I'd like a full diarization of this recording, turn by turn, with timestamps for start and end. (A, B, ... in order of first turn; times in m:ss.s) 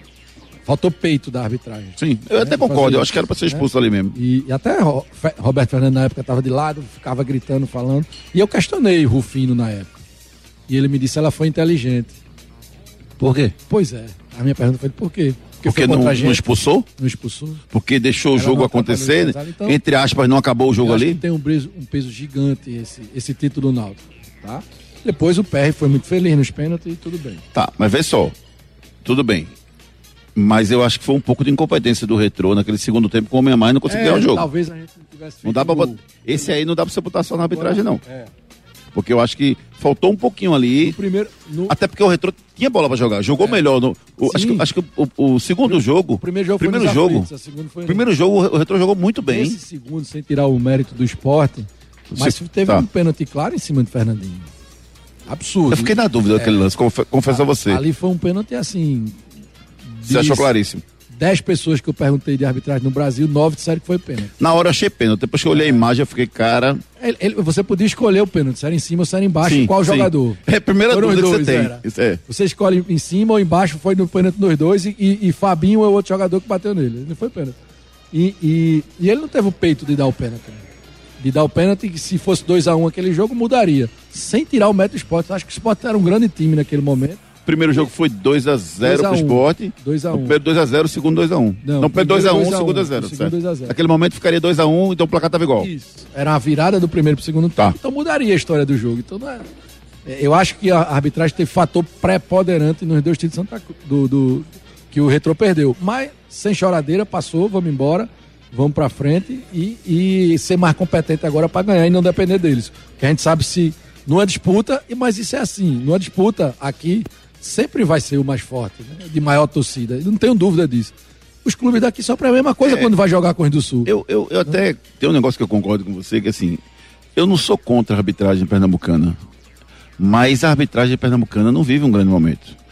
0:00.6-0:10.0 A
0:02.0-0:04.2 B
0:10.7-0:12.2 A
0:13.2-0:13.5 B
0:13.7-0:16.4 A
0:15.6-0:16.9 B
0:17.0-0:17.6 A
0:17.7-0:21.2 B
0:18.3-0:19.8 A
0:20.8-0:27.4 A
0:27.5-0:28.3 B
0:29.0-0:29.6 B
0:30.3-0:34.5 B
0:33.8-0:36.2 A
0:35.4-0:38.0 B
0:37.5-0:38.3 A
0:38.9-0:41.0 B
0:40.8-0:41.8 A
0:41.7-0:47.3 B
0:44.2-0:44.7 A
0:45.6-0:48.1 A
0:47.9-0:49.6 B
0:49.3-0:54.5 A
0:52.1-0:52.9 B
0:55.3-0:56.6 A
0:55.7-0:57.8 B
0:57.3-0:59.2 A
0:59.8-1:00.5 A
1:00.1-1:00.8 B
1:01.1-1:04.3 A
1:04.4-1:06.8 B
1:05.5-1:05.8 A
1:07.0-1:17.6 A
1:09.4-1:12.2 B
1:18.1-1:20.6 A
1:21.2-1:27.2 A
1:27.4-1:35.7 B
1:28.8-1:30.4 A
1:31.6-1:33.8 A
1:35.6-1:39.4 A
1:40.0-2:00.9 A
2:01.4-2:03.9 A
2:02.6-2:02.9 B
2:03.8-2:06.6 B
2:07.2-2:09.2 B
2:10.0-2:12.6 B